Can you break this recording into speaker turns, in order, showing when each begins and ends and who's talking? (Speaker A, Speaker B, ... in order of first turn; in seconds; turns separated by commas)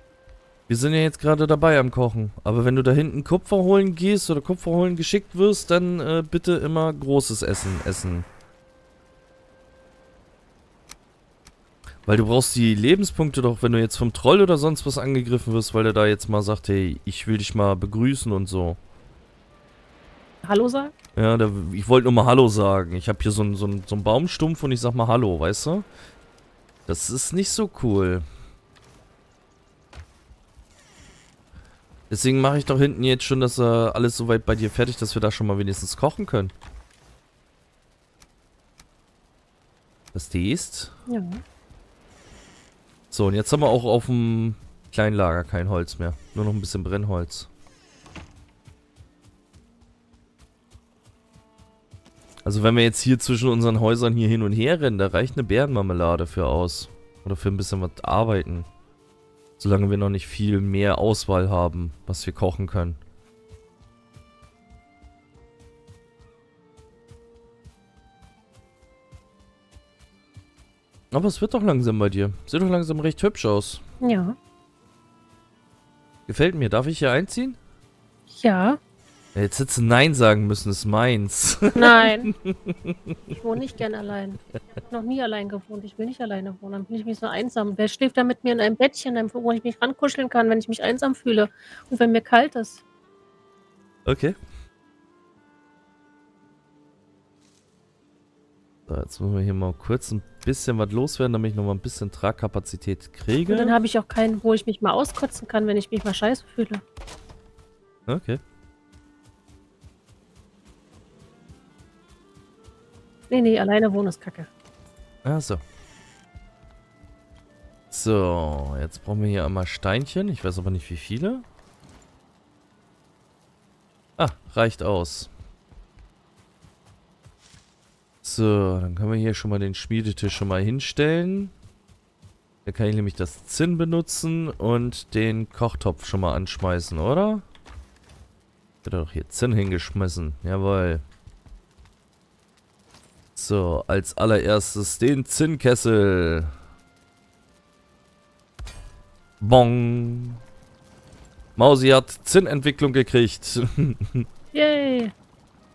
Speaker A: 0.7-8.3, Speaker A: 12.1-18.8, Speaker B: 20.4-20.9, Speaker A: 21.1-25.9, Speaker A: 26.9-28.2, Speaker A: 32.1-36.5, Speaker A: 40.1-40.9, Speaker B: 41.1-41.4, Speaker A: 43.1-47.5, Speaker A: 52.5-58.7, Speaker A: 59.6-63.0, Speaker A: 71.1-73.8, Speaker B: 74.0-74.4, Speaker A: 76.3-77.6, Speaker B: 78.3-78.8, Speaker A: 79.3-82.9, Speaker B: 81.8-82.3, Speaker B: 83.3-92.8, Speaker A: 94.1-94.4, Speaker A: 98.9-103.8, Speaker B: 103.5-106.8, Speaker A: 108.1-108.4, Speaker B: 113.3-114.5, Speaker A: 115.2-115.6, Speaker A: 117.9-121.4, Speaker A: 124.2-125.3, Speaker A: 128.2-131.5, Speaker A: 132.6-137.4, Speaker A: 138.8-141.0, Speaker A: 143.4-146.5, Speaker A: 149.4-150.4, Speaker A: 151.6-154.3, Speaker B: 154.5-155.1